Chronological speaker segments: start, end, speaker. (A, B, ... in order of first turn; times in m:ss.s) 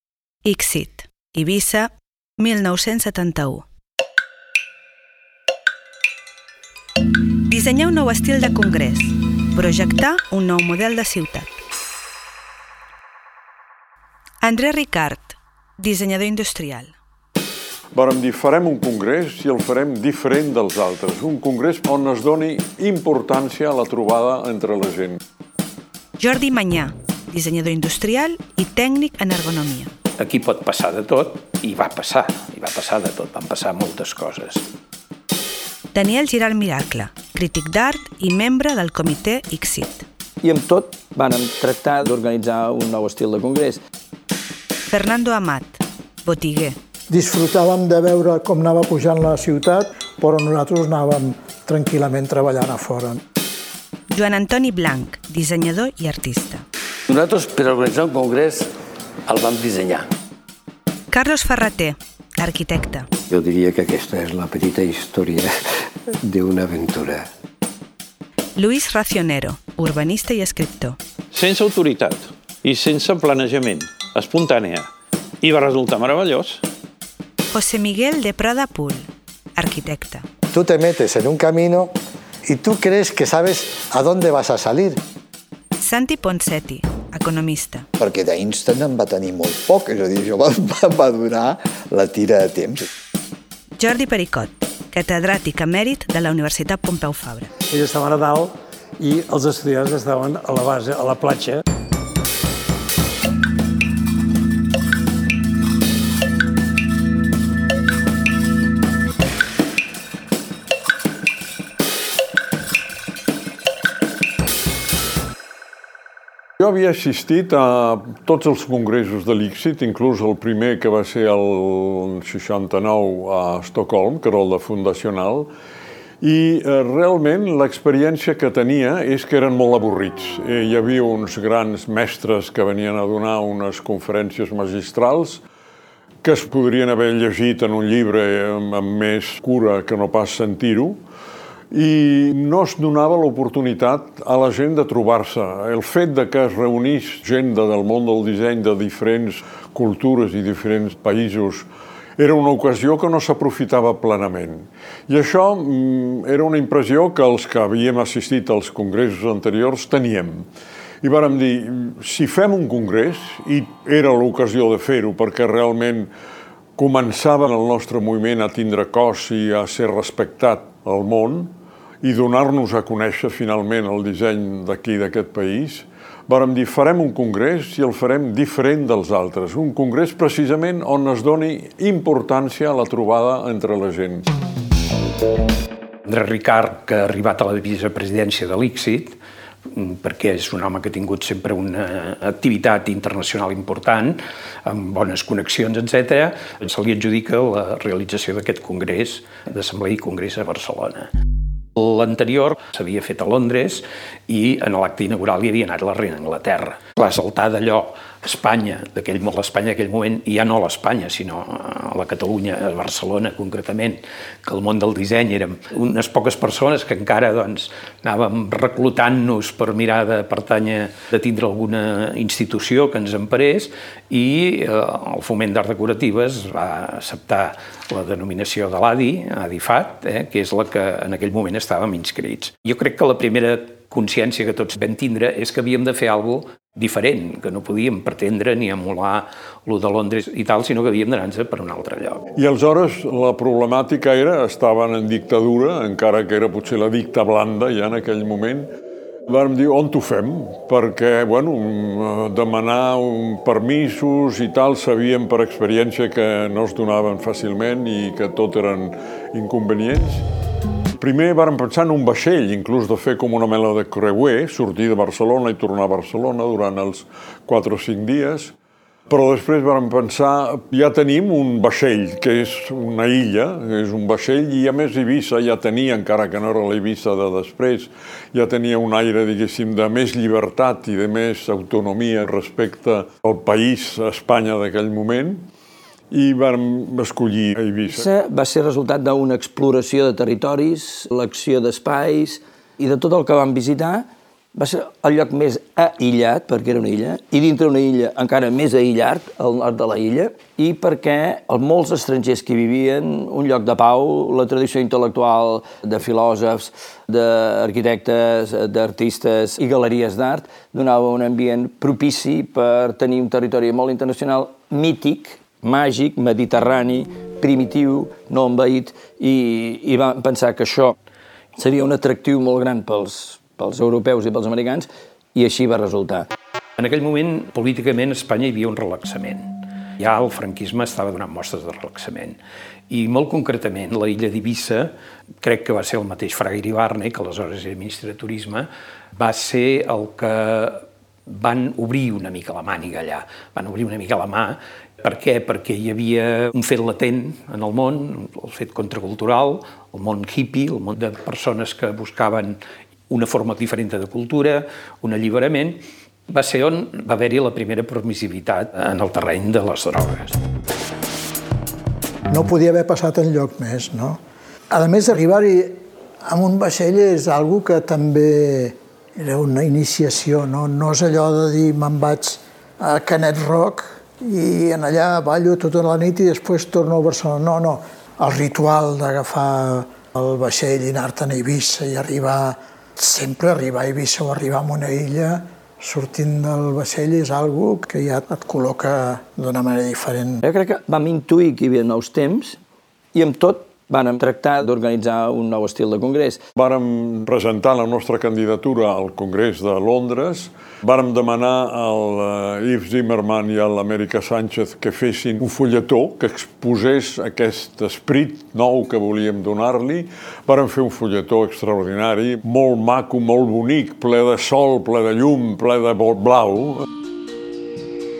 0:00.4-0:03.6 A
0:07.4-0:11.5 A
0:14.4-0:16.9 A
0:17.9-0:25.2 B
0:26.2-0:29.9 A
0:30.2-0:34.6 C
0:35.9-0:40.0 A
0:40.4-0:43.8 D
0:44.9-0:46.8 A
0:47.1-0:53.2 E
0:54.1-0:56.6 A
0:57.1-0:58.7 F
0:59.3-1:00.1 F
1:01.1-1:03.1 A
1:03.3-1:07.3 G
1:08.6-1:11.0 A
1:11.3-1:14.9 H
1:15.4-1:16.6 H
1:17.5-1:20.2 A
1:20.5-1:21.9 I
1:22.4-1:25.0 I
1:25.8-1:27.9 A
1:28.0-1:32.9 J
1:33.8-1:37.5 A
1:37.7-1:41.6 K
1:56.6-2:05.5 B
2:06.2-2:15.4 B
2:16.2-2:21.0 B
2:21.7-2:40.4 B
2:41.0-2:46.1 B
2:46.8-3:04.3 B
3:06.0-3:09.2 C
3:09.7-3:21.1 C
3:21.8-4:02.2 C
4:02.4-4:08.7 B
4:09.3-4:20.2 B
4:21.0-4:28.5 B
4:29.1-4:45.4 B
4:46.1-4:48.1 B
4:47.9-5:21.0 D
5:21.6-5:26.3 D
5:26.8-5:32.4 C
5:32.9-5:52.6 C
5:53.1-6:00.4 C
6:02.3-6:30.4 E
6:30.4-6:32.6 D
6:33.1-6:36.4 D
6:36.6-6:56.9 B